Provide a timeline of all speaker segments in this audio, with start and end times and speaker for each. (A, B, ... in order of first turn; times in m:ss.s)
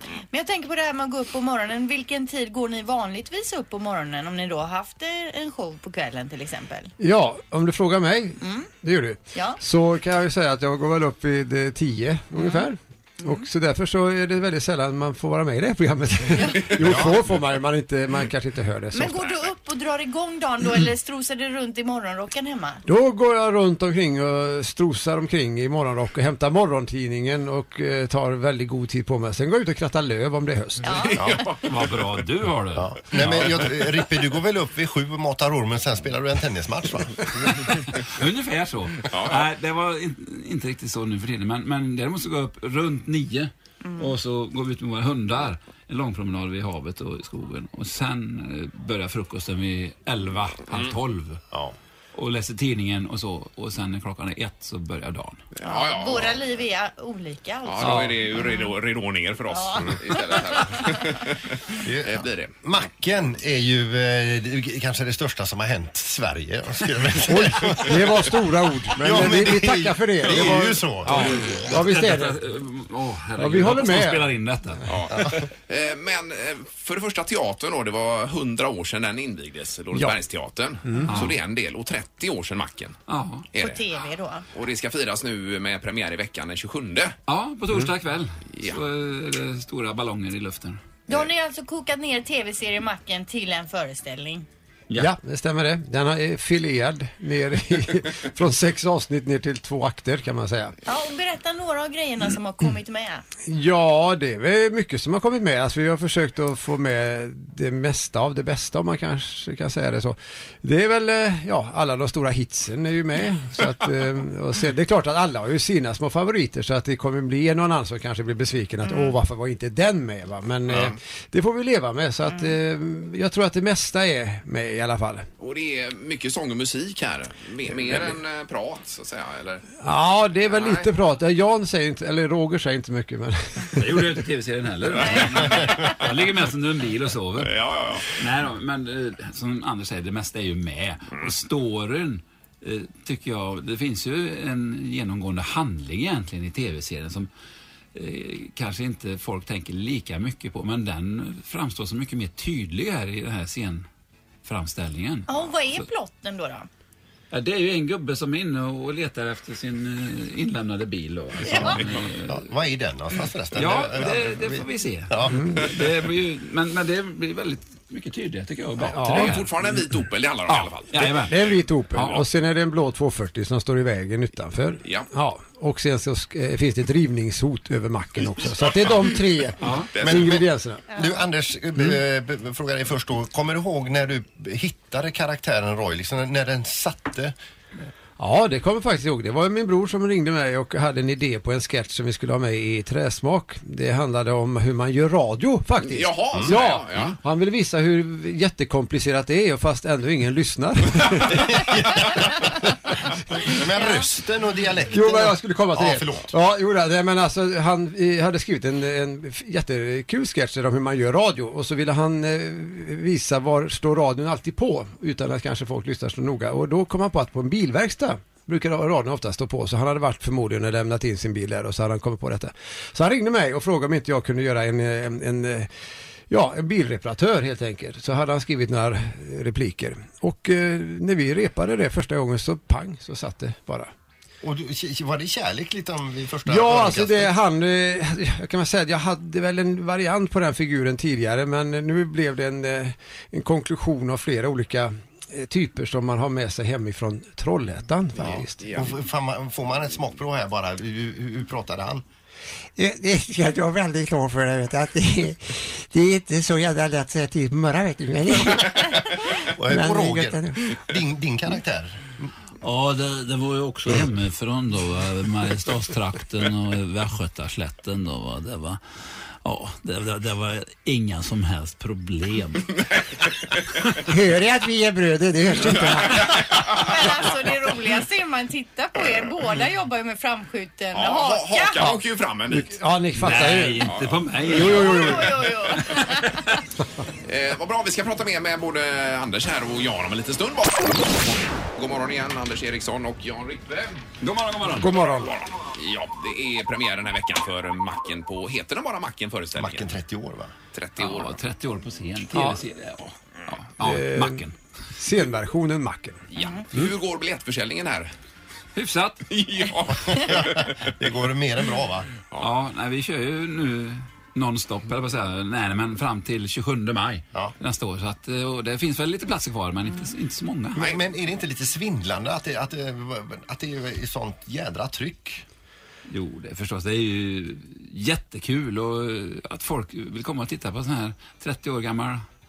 0:00.3-0:06.9 A
0:07.0-0:19.2 B
0:08.4-0:08.7 A
0:09.3-0:09.6 A
0:12.4-0:12.7 A
0:16.4-0:16.6 A
0:16.8-0:17.2 C
0:18.9-0:22.8 A
0:22.8-0:30.9 B
0:30.8-0:31.3 A
0:30.9-0:31.6 D
0:31.2-0:31.5 C
0:31.6-0:33.7 E
0:32.7-0:37.5 C
0:38.0-0:51.4 E
0:39.1-0:39.4 D
0:43.8-0:44.1 A
0:52.1-0:55.4 E
0:55.5-0:56.4 D
0:55.6-0:58.7 A
0:57.6-1:02.6 D
0:57.8-0:58.1 B
0:59.5-1:00.9 A
1:01.8-1:08.4 C
1:07.3-1:12.4 B
1:08.9-1:11.8 C
1:11.0-1:14.8 E
1:13.4-1:14.4 B
1:14.8-1:23.0 D
1:20.8-1:21.2 B
1:21.0-1:21.4 E
1:23.1-1:23.5 E
1:23.5-1:23.8 D
1:23.6-1:24.5 A
1:24.5-1:27.2 D
1:27.3-1:30.8 E
1:28.5-1:28.8 D
1:31.1-1:34.4 A
1:35.0-1:40.7 B
1:40.8-1:43.2 A
1:43.5-2:05.3 B
1:58.8-1:59.2 A
2:00.7-2:01.0 D
2:02.3-2:02.6 A
2:05.4-2:09.6 D
2:09.8-2:13.8 B
2:10.5-2:10.9 D
2:13.8-2:27.3 E
2:15.0-2:16.0 D
2:17.4-2:18.1 D
2:27.9-2:33.8 E
2:34.4-2:35.8 E
2:35.3-2:36.7 A
2:37.3-2:42.5 E
2:41.4-2:41.8 A
2:41.5-2:45.4 C
2:43.5-2:52.2 E
2:45.3-2:45.6 B
2:48.9-2:49.3 B
2:49.1-2:51.2 D
2:51.3-3:00.8 B
2:59.6-2:59.9 E
2:59.9-3:00.4 D
3:00.0-3:07.3 C
3:00.9-3:01.2 A
3:08.2-3:22.0 B
3:15.8-3:17.2 D
3:21.3-3:22.7 C
3:23.4-3:26.3 C
3:23.7-3:24.1 A
3:24.9-3:45.7 B
3:46.3-3:53.9 B
3:54.4-3:57.3 C
3:56.4-4:08.6 B
4:08.2-4:08.9 D
4:08.7-4:12.0 C
4:12.8-4:18.9 F
4:19.4-4:22.3 C
4:19.7-4:20.6 F
4:22.6-4:32.8 E
4:32.8-4:33.2 D
4:34.1-4:36.2 F
4:35.7-4:37.0 D
4:36.5-4:41.8 A
4:40.9-4:42.7 D
4:41.8-4:45.5 B
4:43.2-4:46.6 E
4:43.8-4:44.2 D
4:44.6-4:46.4 A
4:47.2-4:54.0 D
4:54.2-4:55.0 E
4:54.8-4:55.3 B
4:55.2-5:00.0 D
4:59.5-5:00.5 C
5:00.7-5:01.4 D
5:01.0-5:04.5 E
5:02.3-5:02.6 B
5:03.8-5:04.4 B
5:04.9-5:06.2 B
5:06.3-5:08.1 D
5:08.7-5:09.2 E
5:09.3-5:10.9 D
5:10.1-5:12.1 C
5:12.4-5:20.9 E
5:20.8-5:25.4 C
5:26.1-5:32.2 E